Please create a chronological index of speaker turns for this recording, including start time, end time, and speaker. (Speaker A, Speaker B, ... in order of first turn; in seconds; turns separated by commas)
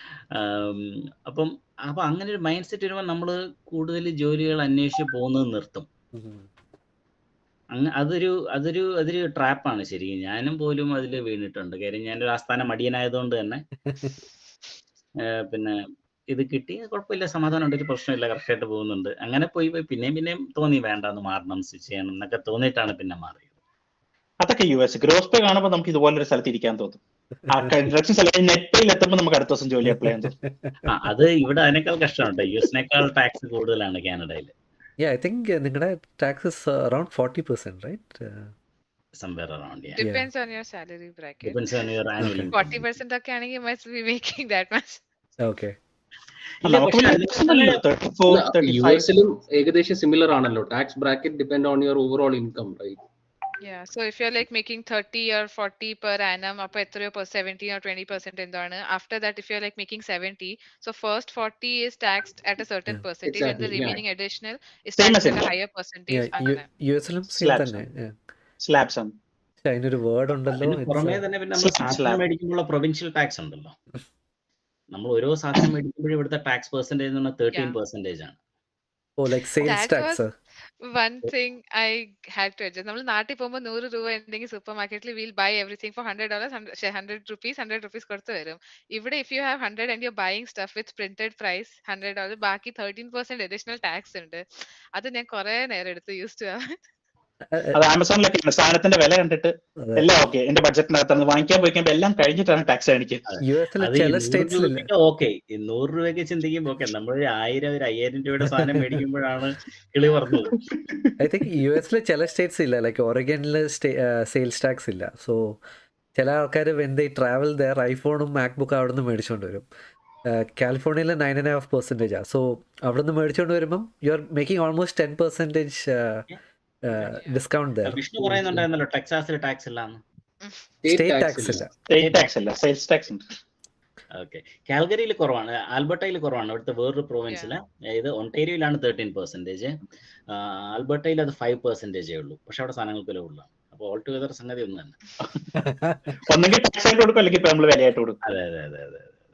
Speaker A: 0.3-5.9, Speaker B: 6.1-6.5, Speaker A: 7.7-13.6, Speaker B: 13.9-14.1, Speaker A: 15.2-15.8, Speaker A: 16.3-23.5, Speaker C: 24.4-30.3, Speaker B: 29.9-30.9, Speaker A: 30.9-34.5, Speaker B: 35.0-38.5, Speaker A: 39.2-40.0, Speaker D: 40.0-41.6, Speaker B: 40.0-40.3, Speaker A: 41.4-42.9, Speaker B: 42.2-42.5, Speaker D: 42.5-45.0, Speaker B: 45.4-45.8, Speaker A: 46.6-47.8, Speaker C: 46.6-49.1, Speaker E: 48.3-53.0, Speaker D: 53.6-66.6, Speaker E: 63.2-64.0, Speaker C: 65.0-65.5, Speaker B: 66.1-68.1, Speaker C: 67.3-67.8, Speaker C: 68.6-69.1, Speaker B: 69.6-71.2, Speaker A: 70.5-73.7, Speaker C: 71.6-72.2, Speaker A: 74.9-78.4, Speaker B: 79.2-80.3, Speaker D: 79.6-80.2, Speaker D: 80.8-94.4, Speaker D: 94.9-96.8, Speaker B: 97.5-97.8, Speaker C: 97.7-103.2, Speaker B: 99.8-100.1, Speaker A: 103.3-110.5, Speaker B: 103.4-104.9, Speaker B: 108.5-109.0, Speaker C: 110.3-111.1, Speaker B: 111.2-115.6, Speaker B: 116.1-119.7, Speaker B: 120.2-126.3, Speaker B: 126.8-128.0, Speaker D: 127.0-127.4, Speaker A: 127.8-130.0, Speaker E: 130.8-131.7, Speaker B: 130.9-131.7, Speaker C: 131.9-133.2, Speaker A: 132.0-132.2, Speaker A: 134.2-139.7, Speaker A: 140.3-145.0, Speaker B: 145.6-146.1, Speaker C: 146.2-148.2, Speaker A: 148.2-149.2